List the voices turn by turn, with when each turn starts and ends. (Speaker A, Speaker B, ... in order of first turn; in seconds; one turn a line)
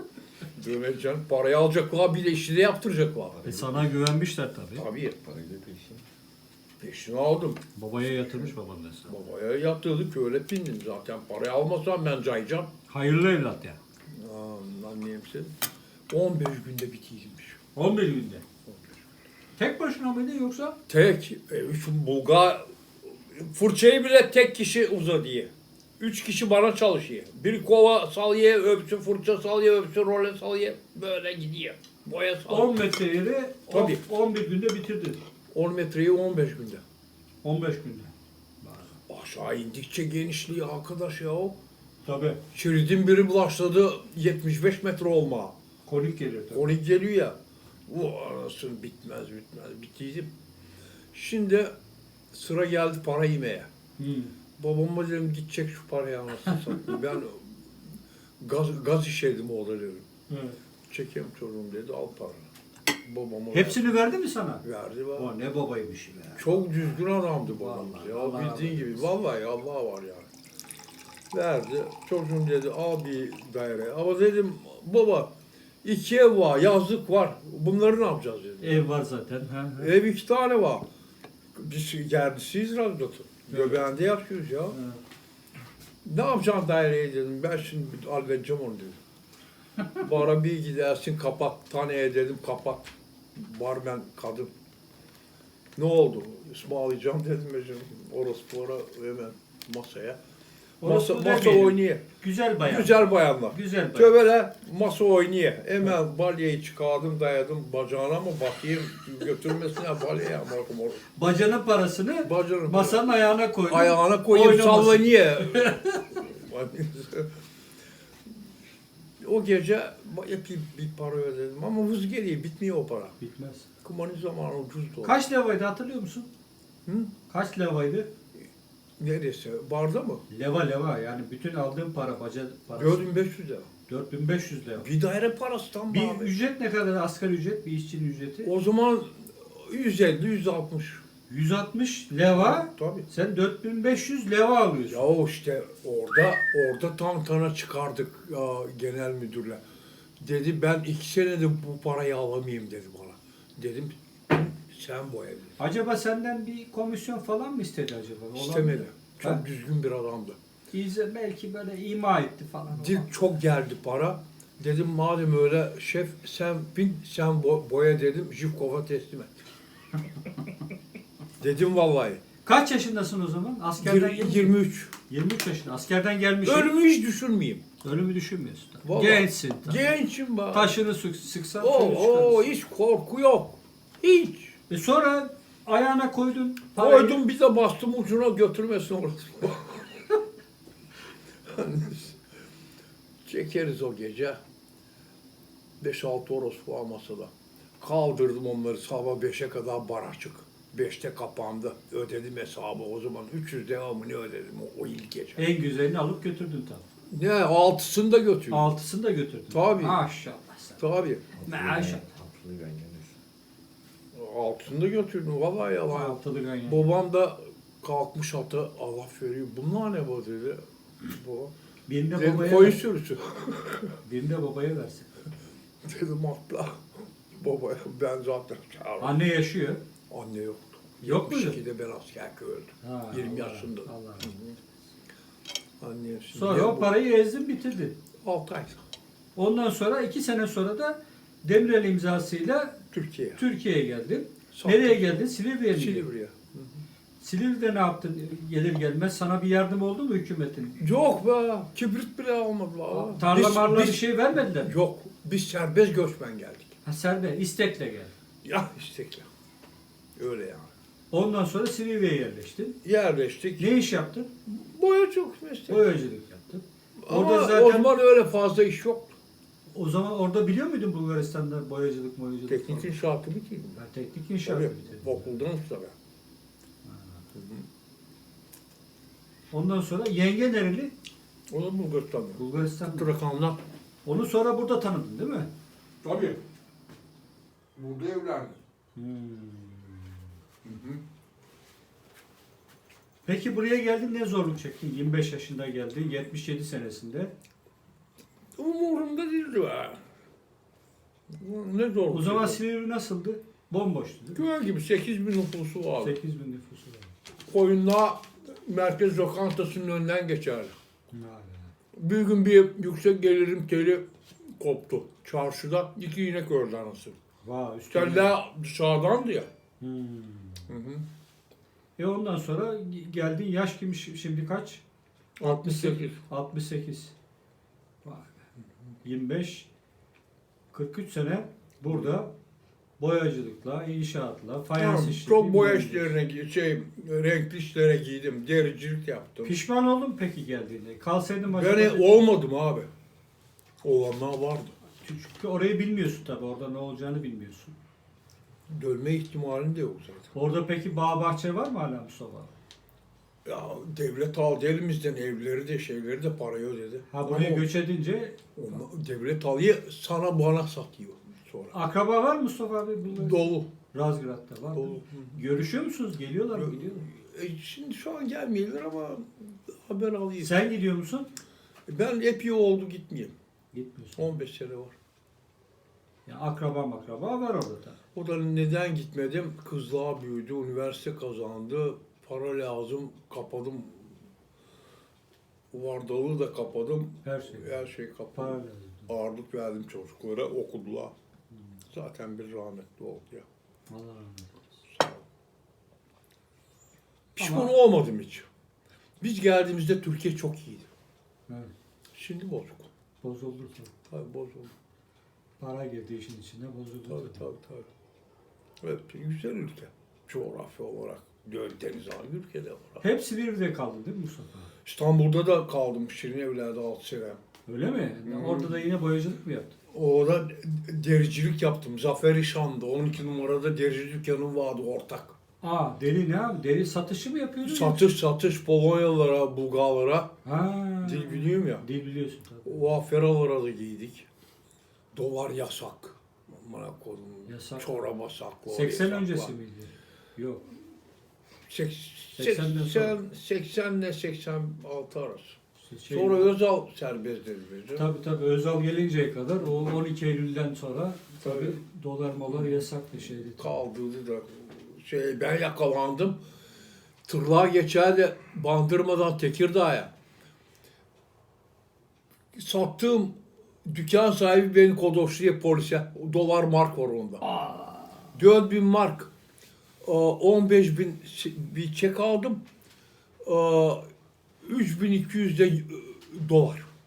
Speaker A: 0.6-3.4
Speaker B: 3.4-3.9
Speaker C: 3.5-4.9
Speaker A: 4.8-5.2
Speaker B: 5.2-6.0
Speaker A: 6.8-7.6
Speaker C: 7.8-9.2
Speaker A: 9.1-12.7
Speaker C: 12.9-13.8
Speaker A: 14.1-15.5
Speaker A: 16.1-17.6
Speaker C: 17.8-18.4
Speaker A: 18.7-18.9
Speaker C: 19.6-20.8
Speaker A: 20.9-32.8
Speaker C: 32.5-35.2
Speaker A: 33.7-34.0
Speaker A: 35.5-36.8
Speaker C: 37.4-38.9
Speaker A: 39.1-41.6
Speaker C: 42.0-42.4
Speaker A: 42.5-45.5
Speaker C: 45.9-46.7
Speaker A: 46.5-47.4
Speaker A: 47.9-50.3
Speaker A: 51.1-51.7
Speaker A: 52.3-53.7
Speaker C: 54.0-54.3
Speaker A: 54.6-57.6
Speaker A: 58.4-60.1
Speaker C: 60.3-60.6
Speaker A: 60.9-62.5
Speaker A: 63.0-63.9
Speaker C: 63.5-64.6
Speaker A: 64.6-65.3
Speaker C: 65.2-66.9
Speaker A: 66.4-70.3
Speaker C: 67.5-69.1
Speaker A: 71.3-75.3
Speaker A: 75.8-78.8
Speaker C: 78.6-79.9
Speaker A: 79.8-80.9
Speaker A: 81.5-84.8
Speaker C: 83.5-83.8
Speaker C: 84.7-85.0
Speaker A: 86.0-89.0
Speaker A: 90.0-94.5
Speaker A: 95.8-100.2
Speaker C: 100.8-104.2
Speaker A: 100.8-102.0
Speaker A: 102.6-111.0
Speaker C: 111.2-116.0
Speaker A: 112.2-113.1
Speaker A: 113.7-117.3
Speaker A: 119.2-123.2
Speaker C: 123.2-123.7
Speaker A: 123.8-125.2
Speaker C: 125.0-126.3
Speaker A: 126.9-127.1
Speaker C: 127.3-128.1
Speaker A: 129.0-130.2
Speaker C: 130.3-133.1
Speaker A: 132.8-133.7
Speaker C: 133.9-134.9
Speaker A: 134.8-136.3
Speaker C: 135.9-138.5
Speaker A: 138.4-141.0
Speaker C: 141.3-145.1
Speaker A: 142.3-143.1
Speaker A: 144.9-149.6
Speaker A: 150.2-155.6
Speaker C: 155.6-159.4
Speaker A: 158.4-160.4
Speaker C: 160.7-163.1
Speaker A: 162.7-169.4
Speaker A: 171.4-172.2
Speaker C: 172.4-174.6
Speaker A: 173.8-174.9
Speaker C: 175.1-176.7
Speaker A: 176.4-177.6
Speaker C: 177.8-179.9
Speaker A: 178.8-180.8
Speaker C: 180.5-182.5
Speaker A: 181.6-184.6
Speaker C: 184.7-187.2
Speaker A: 186.8-190.0
Speaker A: 191.5-192.2
Speaker A: 193.2-194.4
Speaker A: 195.8-205.5
Speaker C: 205.4-206.8
Speaker A: 207.1-208.7
Speaker C: 208.5-210.8
Speaker A: 209.5-210.0
Speaker A: 210.8-211.3
Speaker B: 211.4-213.2
Speaker C: 211.5-212.1
Speaker A: 214.1-221.5
Speaker C: 215.9-216.9
Speaker C: 221.9-222.8
Speaker A: 222.1-224.0
Speaker C: 224.0-225.3
Speaker A: 225.8-229.2
Speaker C: 229.0-229.8
Speaker A: 230.1-234.6
Speaker C: 231.0-231.6
Speaker C: 232.8-234.3
Speaker A: 235.8-237.0
Speaker C: 236.3-238.0
Speaker A: 238.2-238.8
Speaker C: 239.4-242.8
Speaker A: 242.9-243.4
Speaker C: 243.4-246.1
Speaker A: 244.5-245.2
Speaker A: 245.7-246.8
Speaker C: 247.2-250.8
Speaker A: 250.8-256.8
Speaker C: 252.9-254.8
Speaker C: 256.8-258.1
Speaker A: 258.4-259.3
Speaker A: 260.2-260.7
Speaker C: 261.1-262.8
Speaker A: 262.8-263.8
Speaker C: 263.6-264.3
Speaker A: 264.4-266.0
Speaker C: 265.7-267.9
Speaker A: 267.0-269.2
Speaker C: 269.8-273.0
Speaker A: 272.5-273.8
Speaker C: 273.8-275.3
Speaker A: 274.4-275.9
Speaker C: 276.9-277.2
Speaker A: 277.4-277.7
Speaker C: 279.5-280.9
Speaker A: 281.5-283.6
Speaker C: 282.4-283.1
Speaker C: 284.1-285.5
Speaker A: 286.0-286.4
Speaker A: 287.8-288.6
Speaker C: 288.9-290.2
Speaker A: 290.6-291.0
Speaker C: 293.3-297.3
Speaker A: 298.6-300.0
Speaker A: 301.3-302.6
Speaker C: 302.1-304.4
Speaker A: 304.4-306.2
Speaker C: 306.0-307.1
Speaker A: 307.5-310.7
Speaker C: 311.1-311.7
Speaker A: 311.9-317.2
Speaker C: 317.4-318.3
Speaker A: 317.9-319.5
Speaker C: 319.8-320.7
Speaker A: 320.7-321.1
Speaker C: 322.0-324.8
Speaker A: 325.4-326.2
Speaker C: 325.6-327.1
Speaker C: 328.1-328.3
Speaker C: 329.0-329.7
Speaker C: 330.7-332.3
Speaker A: 331.9-332.2
Speaker C: 333.0-336.1
Speaker A: 334.8-339.6
Speaker C: 339.4-342.2
Speaker A: 341.5-342.9
Speaker A: 343.8-344.7
Speaker C: 345.0-347.8
Speaker A: 348.7-350.3
Speaker C: 350.3-352.5
Speaker A: 353.4-357.7
Speaker C: 357.1-358.4
Speaker A: 358.6-361.8
Speaker C: 361.7-367.0
Speaker A: 363.1-363.7
Speaker A: 364.7-365.4
Speaker A: 366.5-370.6
Speaker C: 370.4-371.3
Speaker A: 371.9-373.3
Speaker C: 373.7-374.3
Speaker A: 374.2-374.9
Speaker C: 376.3-378.0
Speaker A: 378.1-384.1
Speaker A: 385.7-391.1
Speaker C: 387.2-387.8
Speaker C: 388.3-389.1
Speaker A: 391.9-393.5
Speaker C: 393.9-394.6
Speaker A: 394.9-395.2
Speaker A: 397.4-398.5
Speaker C: 397.4-397.7
Speaker A: 399.2-400.9
Speaker A: 402.1-402.9
Speaker C: 403.2-403.9
Speaker A: 404.1-404.7
Speaker C: 405.6-407.4
Speaker A: 407.1-407.9
Speaker A: 408.8-413.0
Speaker C: 413.0-414.7
Speaker A: 414.9-417.4
Speaker C: 417.7-419.8
Speaker A: 418.3-418.8
Speaker A: 419.9-425.4
Speaker C: 425.6-428.0
Speaker A: 427.6-430.4
Speaker C: 430.4-432.8
Speaker A: 431.0-431.8
Speaker A: 432.6-434.3
Speaker A: 435.1-439.5
Speaker C: 437.5-437.9
Speaker C: 438.7-440.6
Speaker A: 441.7-445.6
Speaker C: 442.4-443.2
Speaker C: 445.8-446.5
Speaker A: 446.1-448.1
Speaker C: 447.9-453.8
Speaker A: 451.4-451.8
Speaker A: 452.5-452.8
Speaker A: 453.6-456.4
Speaker A: 457.3-460.1
Speaker A: 462.5-467.4
Speaker C: 467.4-468.3
Speaker A: 468.3-469.3
Speaker A: 470.0-472.6
Speaker A: 473.4-474.0
Speaker A: 474.6-476.9